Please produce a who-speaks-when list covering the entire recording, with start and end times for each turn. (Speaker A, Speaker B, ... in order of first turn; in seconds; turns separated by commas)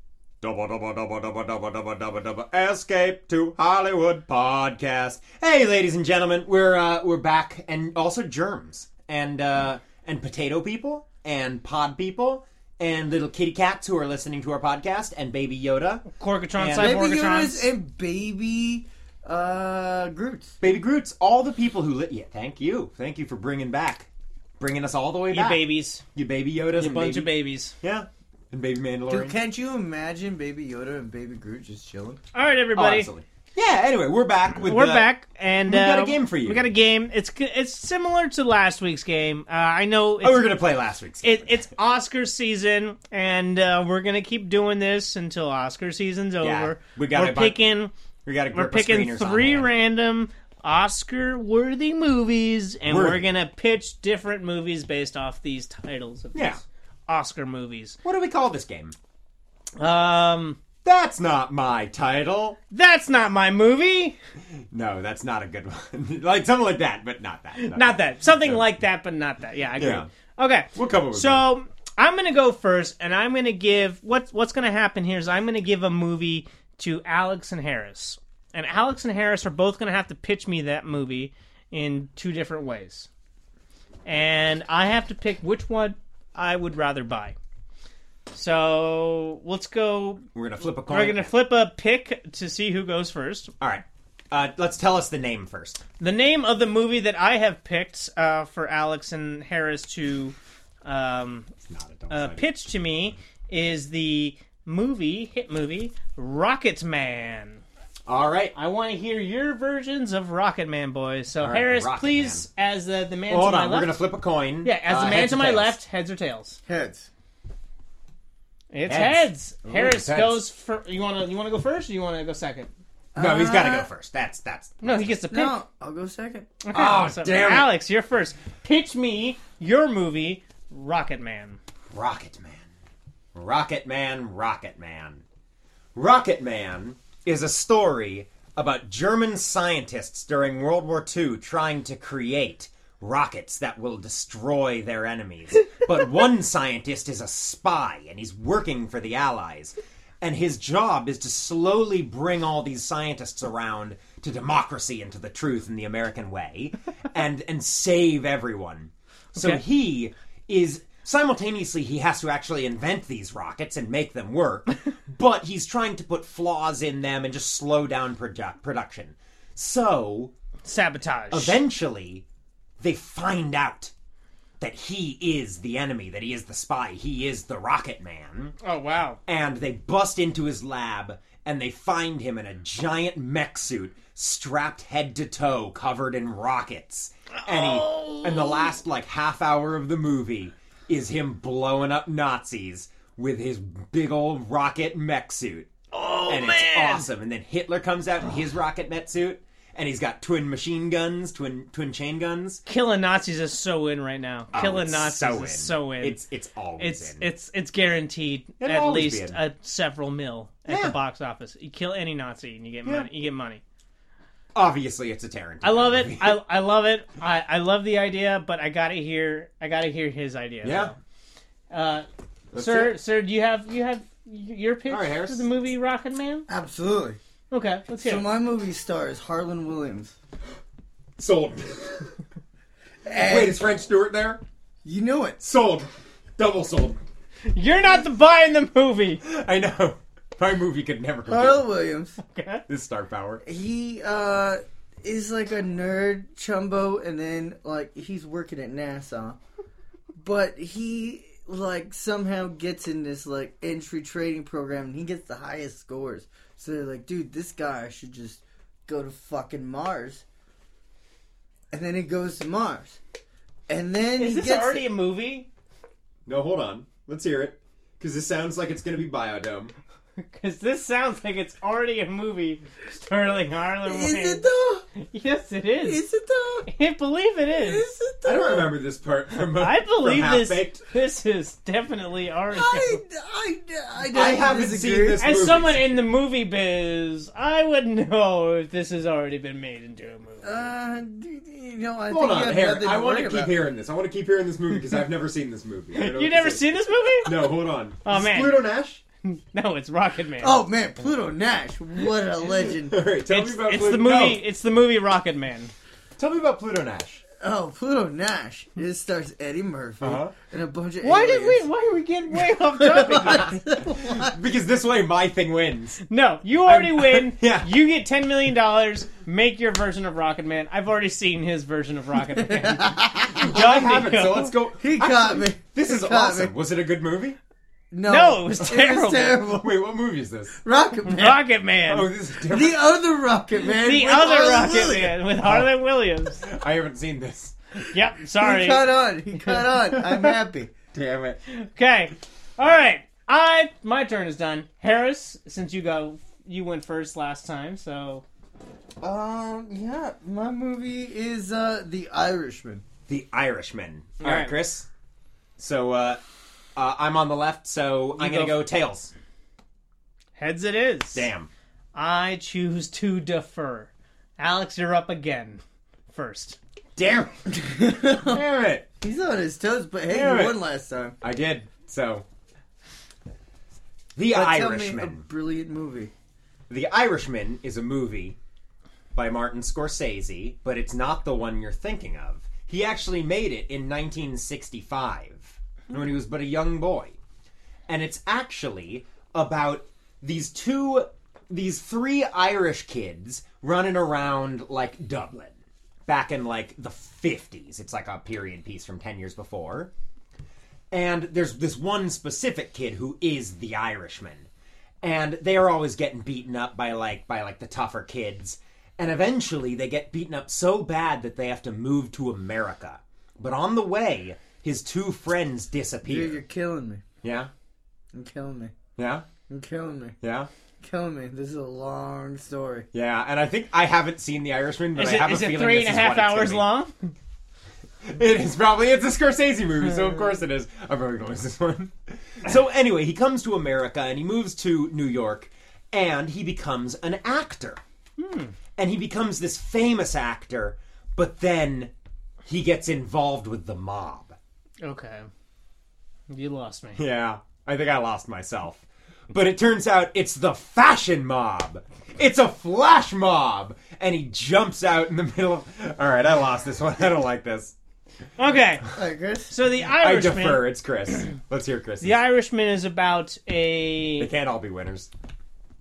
Speaker A: 0.4-16.0, Speaker B: 16.1-17.7, Speaker A: 16.6-16.9, Speaker C: 16.7-20.6, Speaker A: 20.6-24.1, Speaker A: 24.6-25.6, Speaker B: 25.3-26.0, Speaker A: 26.1-27.3, Speaker B: 26.8-27.7, Speaker A: 27.8-29.4, Speaker C: 29.1-32.2, Speaker B: 32.3-33.1, Speaker A: 32.7-35.1, Speaker B: 34.6-40.6, Speaker A: 35.6-36.6, Speaker A: 40.2-41.6, Speaker B: 41.2-47.9, Speaker A: 46.4-47.6, Speaker A: 48.2-49.7, Speaker B: 48.5-58.0, Speaker A: 52.9-53.2, Speaker A: 56.3-56.6, Speaker A: 58.0-58.9, Speaker B: 59.8-60.6, Speaker A: 60.8-62.6, Speaker B: 62.7-64.2, Speaker A: 64.7-68.6, Speaker B: 67.5-83.1, Speaker A: 69.8-70.1, Speaker A: 70.7-71.5, Speaker B: 84.0-87.3, Speaker B: 88.3-93.5, Speaker A: 90.3-91.3, Speaker A: 93.6-95.8, Speaker B: 96.0-101.5, Speaker A: 101.7-102.5, Speaker B: 102.1-107.6, Speaker A: 108.1-108.5, Speaker B: 108.5-114.0, Speaker A: 111.4-112.4, Speaker A: 113.3-115.8, Speaker B: 114.6-116.6, Speaker C: 116.7-117.1, Speaker B: 118.7-122.7, Speaker A: 118.9-120.4, Speaker C: 123.1-123.9, Speaker A: 123.2-125.1, Speaker B: 124.8-125.5, Speaker C: 125.3-126.5, Speaker B: 126.6-131.6, Speaker A: 126.7-127.7, Speaker A: 131.9-132.7, Speaker A: 133.3-135.2, Speaker A: 135.9-170.3, Speaker B: 159.3-159.6, Speaker B: 170.6-171.6, Speaker A: 171.3-172.2, Speaker A: 172.8-173.9, Speaker A: 174.6-178.5, Speaker B: 178.6-179.2, Speaker A: 179.3-195.7, Speaker B: 187.4-188.7, Speaker B: 195.9-197.1, Speaker A: 196.2-202.6, Speaker B: 202.7-206.2, Speaker A: 204.5-207.3, Speaker B: 206.8-213.6, Speaker A: 208.6-209.4, Speaker A: 210.7-211.0, Speaker A: 214.5-216.4, Speaker B: 215.6-220.9, Speaker A: 220.6-220.9, Speaker B: 221.7-226.5, Speaker A: 222.5-223.0, Speaker A: 224.9-225.4, Speaker C: 226.5-227.2, Speaker B: 227.5-228.2, Speaker C: 228.0-230.1, Speaker A: 231.2-232.1, Speaker C: 233.0-233.6, Speaker A: 233.1-234.4, Speaker C: 234.8-235.4, Speaker A: 235.4-237.0, Speaker B: 237.5-239.2, Speaker A: 239.2-241.6, Speaker C: 241.2-242.2, Speaker B: 242.2-242.6, Speaker A: 242.7-243.4, Speaker C: 243.4-249.4, Speaker C: 250.2-260.2, Speaker C: 261.7-263.0, Speaker C: 263.7-264.8, Speaker B: 264.2-265.5, Speaker A: 266.2-269.7, Speaker B: 270.2-274.4, Speaker C: 273.8-274.8, Speaker B: 275.0-276.0, Speaker C: 275.8-276.7, Speaker B: 276.7-277.9, Speaker C: 277.6-278.7, Speaker A: 278.2-280.8, Speaker B: 279.5-283.0, Speaker C: 282.5-285.2, Speaker A: 284.1-286.0, Speaker B: 285.2-290.7, Speaker C: 290.4-293.5, Speaker A: 292.1-296.7, Speaker B: 295.9-298.6, Speaker A: 297.2-299.0, Speaker B: 299.2-300.6, Speaker C: 300.4-303.0, Speaker A: 302.8-304.4, Speaker B: 303.3-305.7, Speaker A: 306.2-307.2, Speaker C: 307.4-311.7, Speaker A: 310.0-310.3, Speaker B: 311.0-313.6, Speaker C: 312.4-314.4, Speaker A: 313.8-316.0, Speaker B: 316.1-324.5, Speaker A: 316.6-317.7, Speaker C: 322.4-323.3, Speaker A: 323.3-327.4, Speaker C: 324.8-326.5, Speaker C: 327.9-329.7, Speaker B: 328.1-329.4, Speaker A: 329.6-330.6, Speaker C: 330.6-331.4, Speaker B: 331.0-332.1, Speaker A: 331.9-332.8, Speaker C: 332.5-335.2, Speaker B: 333.7-336.4, Speaker A: 336.4-337.6, Speaker B: 337.8-340.3, Speaker C: 338.4-340.7, Speaker A: 340.9-341.4, Speaker B: 341.5-348.2, Speaker C: 349.0-352.8, Speaker A: 353.1-354.9, Speaker B: 354.2-354.6, Speaker A: 355.6-356.2, Speaker A: 356.8-359.1, Speaker B: 358.2-358.6, Speaker B: 360.4-361.3, Speaker A: 361.1-361.5, Speaker B: 361.9-365.6, Speaker B: 366.1-366.6, Speaker A: 366.9-367.4, Speaker C: 367.5-368.4, Speaker A: 368.2-368.9, Speaker C: 369.0-371.1, Speaker A: 370.1-370.6, Speaker A: 371.2-372.2, Speaker A: 374.1-375.2, Speaker C: 374.3-376.1, Speaker A: 376.7-378.4, Speaker A: 379.1-387.2, Speaker A: 387.9-395.5, Speaker A: 396.1-399.9, Speaker A: 400.9-404.5, Speaker A: 405.0-416.4, Speaker C: 416.1-417.0, Speaker A: 417.2-417.5, Speaker C: 418.1-418.7, Speaker A: 419.0-419.3, Speaker C: 419.5-420.1, Speaker A: 420.2-420.5, Speaker C: 420.8-422.9, Speaker A: 422.9-426.7, Speaker B: 424.9-427.1, Speaker A: 428.0-437.8, Speaker B: 438.2-438.5, Speaker A: 438.8-441.9, Speaker A: 442.4-444.4, Speaker B: 444.8-445.3, Speaker B: 446.3-447.0, Speaker A: 446.9-457.7, Speaker B: 458.4-458.9, Speaker C: 458.9-459.5, Speaker B: 459.5-460.7, Speaker A: 459.9-462.2, Speaker B: 462.0-464.3, Speaker A: 464.2-465.1